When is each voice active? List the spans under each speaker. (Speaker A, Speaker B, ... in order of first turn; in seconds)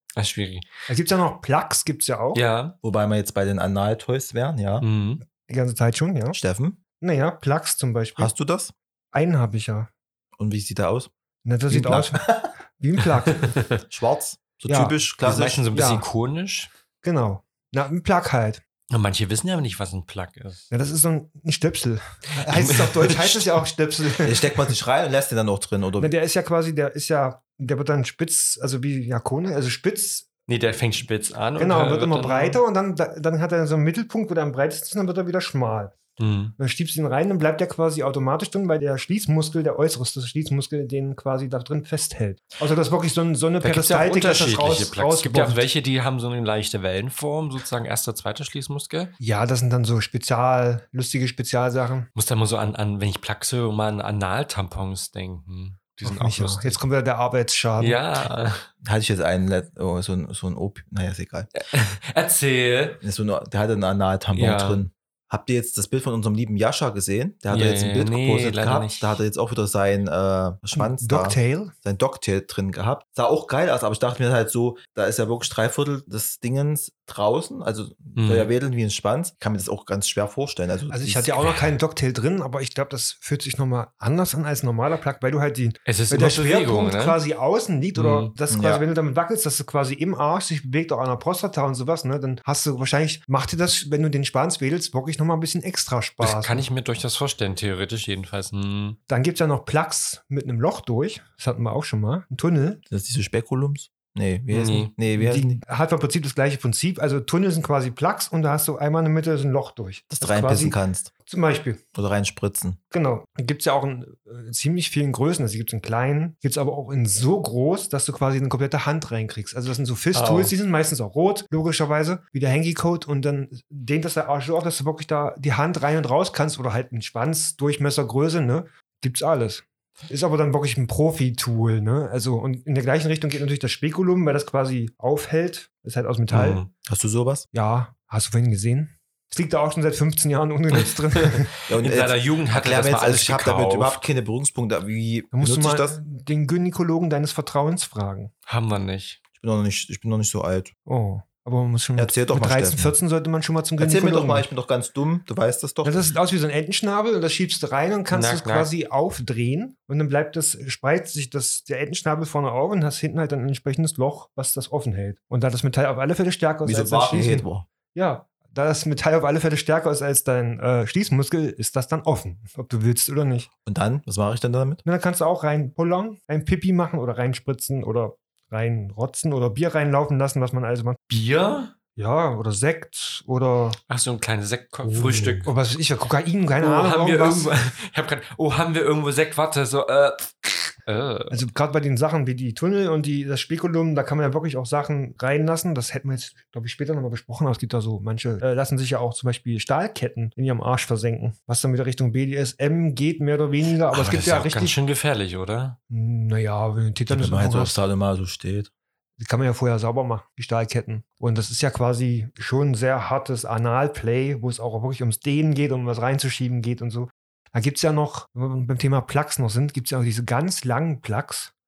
Speaker A: 0.1-0.7, 2.3-2.8, 4.8-5.2, 13.0-13.7, 15.2-16.7, 18.9-20.7, 22.5-23.6, 30.5-32.6, 36.2-36.5, 43.6-49.1, 52.1-56.7, 57.8-58.6, 61.7-63.0, 64.3-64.8, 67.5-69.2, 78.2-78.5, 85.9-87.2, 88.0-88.3, 96.2-99.0, 104.5-104.9, 120.1-120.5, 136.3-136.7, 140.8-144.0, 148.5-149.2, 158.1-158.7, 181.1-181.7, 183.9-185.5, 186.6-191.4, 203.9-205.8
Speaker B: 0.9-2.4, 5.3-6.4, 7.0-8.3, 9.1-9.9, 11.4-13.5, 14.7-14.9, 15.7-16.1, 17.0-18.6, 20.7-24.4, 26.0-30.3, 31.6-36.0, 36.6-45.6, 49.2-52.1, 56.0-58.0, 70.7-71.7, 80.9-96.7, 99.1-102.8, 105.2-111.8, 112.9-136.6, 137.5-141.5, 145.3-148.3, 150.9-154.4, 155.8-173.5, 174.8-181.0, 181.9-183.8, 184.8-187.5, 191.3-204.8, 205.9-207.8, 209.2-221.5
Speaker C: 2.8-4.8, 6.3-6.8, 8.2-8.7, 10.4-11.1, 11.7-12.5, 13.9-15.6, 24.2-26.1, 58.8-61.5, 63.0-81.6, 88.5-88.8, 102.9-105.6, 110.1-111.1, 111.9-112.8, 136.8-137.5, 141.7-146.0, 149.3-150.7, 152.0-152.9, 153.8-156.1, 166.6-167.7, 173.7-174.8, 207.1-208.7